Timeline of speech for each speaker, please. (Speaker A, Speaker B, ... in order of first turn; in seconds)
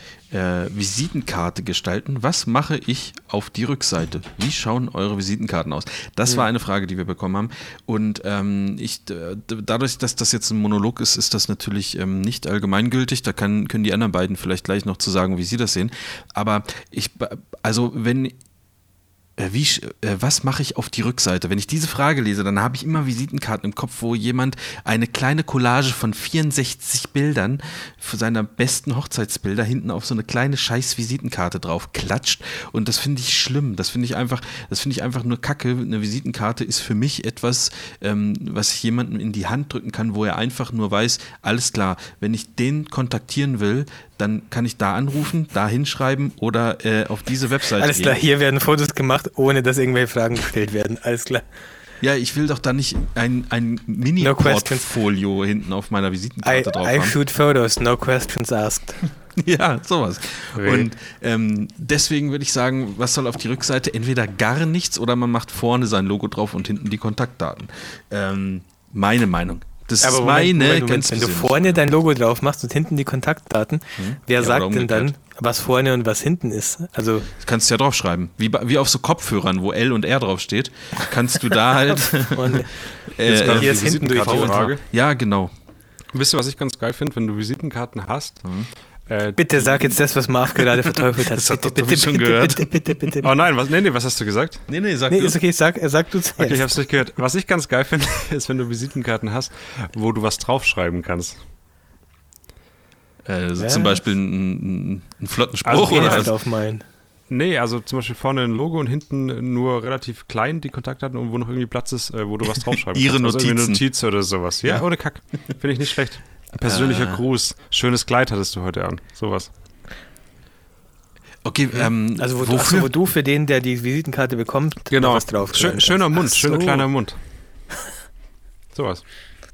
Speaker A: 0.3-18.4, 19.4-48.2, 52.0-57.1, 59.3-71.8, 74.0-75.1, 77.4-85.5, 88.4-88.7, 91.1-93.2, 94.7-95.4, 103.2-106.3, 112.9-113.8, 116.6-117.2, 121.4-122.9
Speaker B: 47.8-51.5, 54.2-54.9, 56.4-59.1, 60.5-60.9, 70.0-77.3, 82.3-84.7, 89.3-93.3, 95.1-96.8, 103.6-104.0, 105.8-106.8, 122.1-126.9
Speaker C: 83.2-84.8, 86.1-88.5, 89.1-89.9, 93.2-94.6, 96.4-101.4, 105.6-106.3, 107.3-119.5, 124.9-127.2, 128.7-129.0